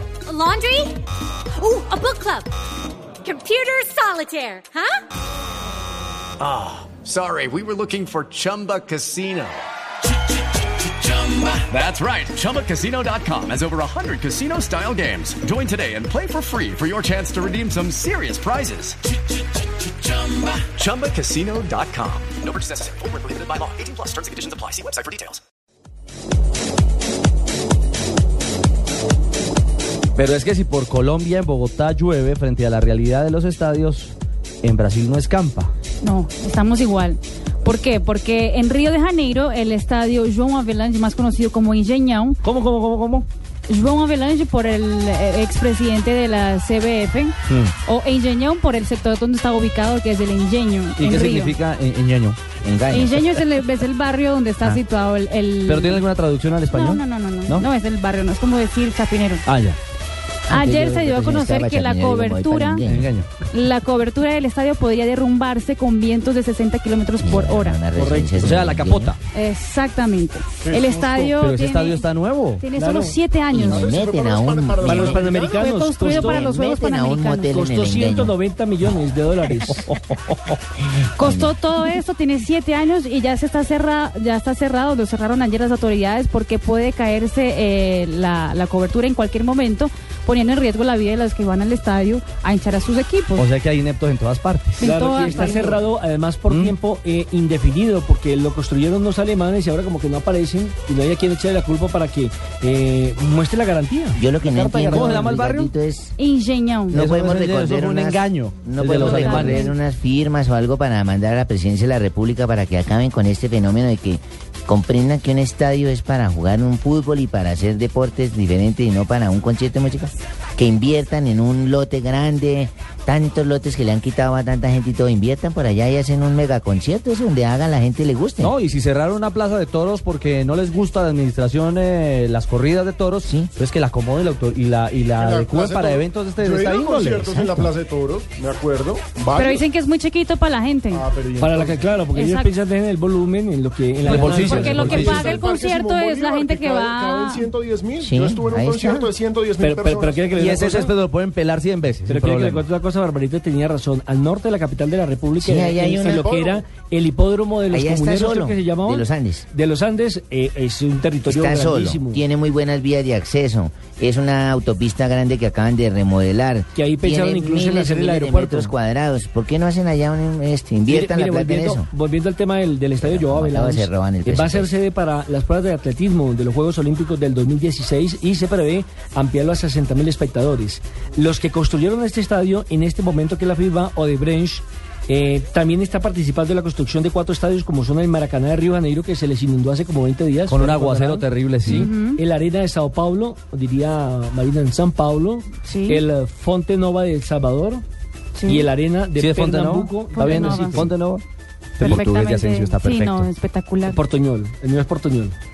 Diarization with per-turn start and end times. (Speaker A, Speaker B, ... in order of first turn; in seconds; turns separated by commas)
Speaker A: 0.3-1.0, Speaker A: 1.6-2.5, Speaker A: 3.2-5.0, Speaker B: 6.4-9.6, Speaker B: 10.9-19.0, Speaker B: 19.8-25.4, Speaker C: 30.2-35.7, Speaker D: 36.0-42.4, Speaker C: 42.4-43.3, Speaker D: 43.7-51.6, Speaker C: 47.5-47.7, Speaker C: 51.0-52.4, Speaker E: 52.6-53.2, Speaker D: 52.9-56.0, Speaker C: 55.7-57.7, Speaker D: 56.7-59.5, Speaker C: 59.5-59.8, Speaker D: 60.5-62.8, Speaker E: 60.5-63.1, Speaker C: 62.8-63.3, Speaker D: 63.5-67.8, Speaker E: 67.2-69.2, Speaker F: 67.9-68.4, Speaker C: 68.4-69.2, Speaker D: 69.3-73.8, Speaker G: 70.6-71.4, Speaker C: 71.4-72.7, Speaker F: 72.8-73.2, Speaker E: 73.5-75.2, Speaker G: 73.6-75.7, Speaker F: 74.8-76.5, Speaker D: 75.5-77.5, Speaker E: 76.0-78.3, Speaker F: 77.5-79.9, Speaker D: 81.2-93.5, Speaker E: 81.2-81.5, Speaker C: 93.3-94.9, Speaker D: 94.8-95.8, Speaker F: 94.8-104.2, Speaker C: 96.5-96.8, Speaker E: 104.2-106.2, Speaker C: 104.4-105.7, Speaker D: 106.2-107.0, Speaker E: 106.9-128.5, Speaker C: 106.9-109.7, Speaker D: 108.9-109.7, Speaker C: 128.4-137.6, Speaker E: 133.2-133.5, Speaker G: 135.2-139.7, Speaker D: 139.3-141.1, Speaker G: 140.9-142.0, Speaker F: 141.4-145.3, Speaker D: 142.1-142.5, Speaker C: 144.0-145.4, Speaker D: 144.4-147.5, Speaker G: 144.7-150.4, Speaker E: 148.0-149.1, Speaker F: 149.6-150.9, Speaker C: 150.3-152.7, Speaker F: 152.1-162.2, Speaker E: 155.4-156.5, Speaker E: 157.7-159.5, Speaker E: 161.3-171.9, Speaker F: 166.7-168.7, Speaker F: 170.9-197.8, Speaker E: 173.0-174.7, Speaker C: 190.5-191.9, Speaker D: 191.7-192.2, Speaker D: 195.6-196.1, Speaker D: 198.4-198.7, Speaker F: 198.5-200.9, Speaker C: 199.2-201.2, Speaker D: 200.0-200.9, Speaker D: 201.8-204.0, Speaker C: 201.8-203.3, Speaker F: 203.9-205.3